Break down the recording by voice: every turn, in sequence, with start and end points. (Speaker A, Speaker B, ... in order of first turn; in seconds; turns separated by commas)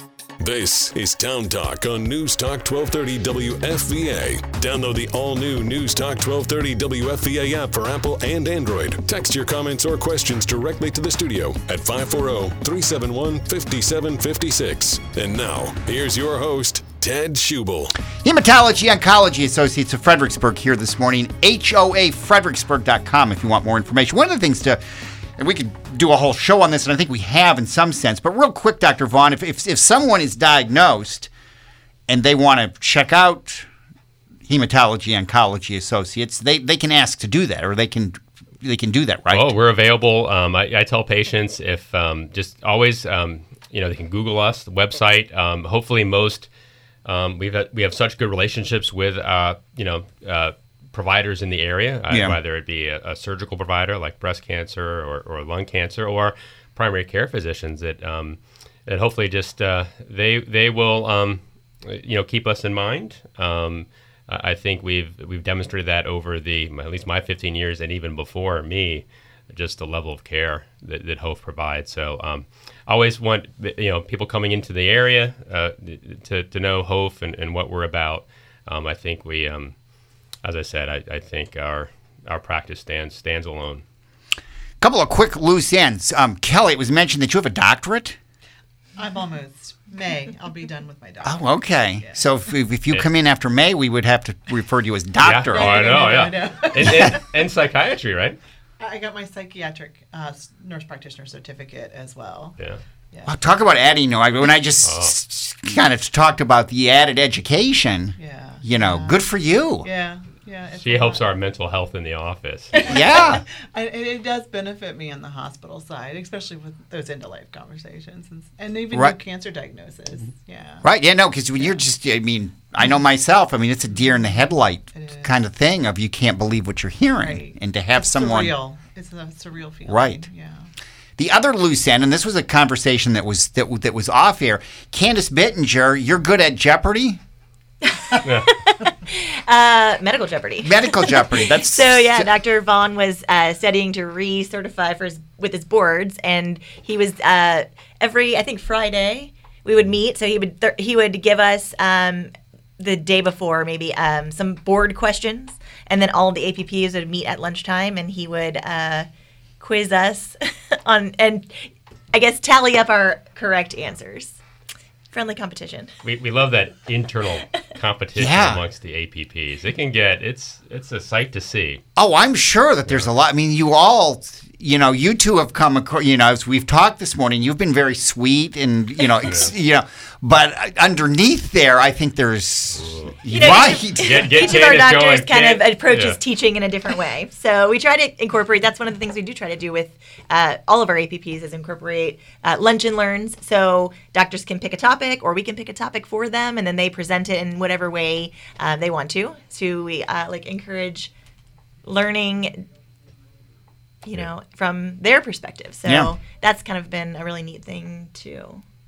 Speaker A: 0.4-18.0, Speaker B: 18.2-24.8, Speaker B: 25.4-31.3, Speaker B: 32.1-33.7, Speaker B: 34.5-39.5, Speaker C: 39.3-46.5, Speaker C: 47.0-79.8, Speaker B: 52.1-52.4, Speaker C: 80.4-83.8, Speaker B: 84.8-88.2, Speaker D: 89.0-91.4, Speaker B: 91.2-96.0, Speaker C: 95.2-98.4, Speaker D: 95.5-97.2, Speaker B: 96.8-97.2, Speaker D: 98.8-102.6, Speaker B: 103.3-109.9, Speaker C: 104.8-105.1, Speaker D: 108.2-109.2, Speaker D: 109.8-111.2, Speaker C: 110.8-112.9, Speaker D: 112.7-120.9, Speaker B: 112.8-113.4, Speaker B: 120.8-128.5, Speaker D: 124.0-125.3, Speaker D: 127.2-130.7, Speaker B: 129.9-130.3, Speaker B: 131.2-137.2, Speaker E: 137.8-159.1, Speaker B: 140.6-142.3, Speaker E: 159.6-164.4, Speaker E: 165.1-165.9, Speaker C: 166.0-171.8, Speaker B: 168.2-168.6, Speaker B: 172.0-184.5, Speaker C: 179.2-179.5, Speaker C: 182.9-186.2, Speaker E: 183.3-201.1, Speaker E: 201.9-202.7, Speaker E: 204.1-208.6, Speaker B: 205.9-206.1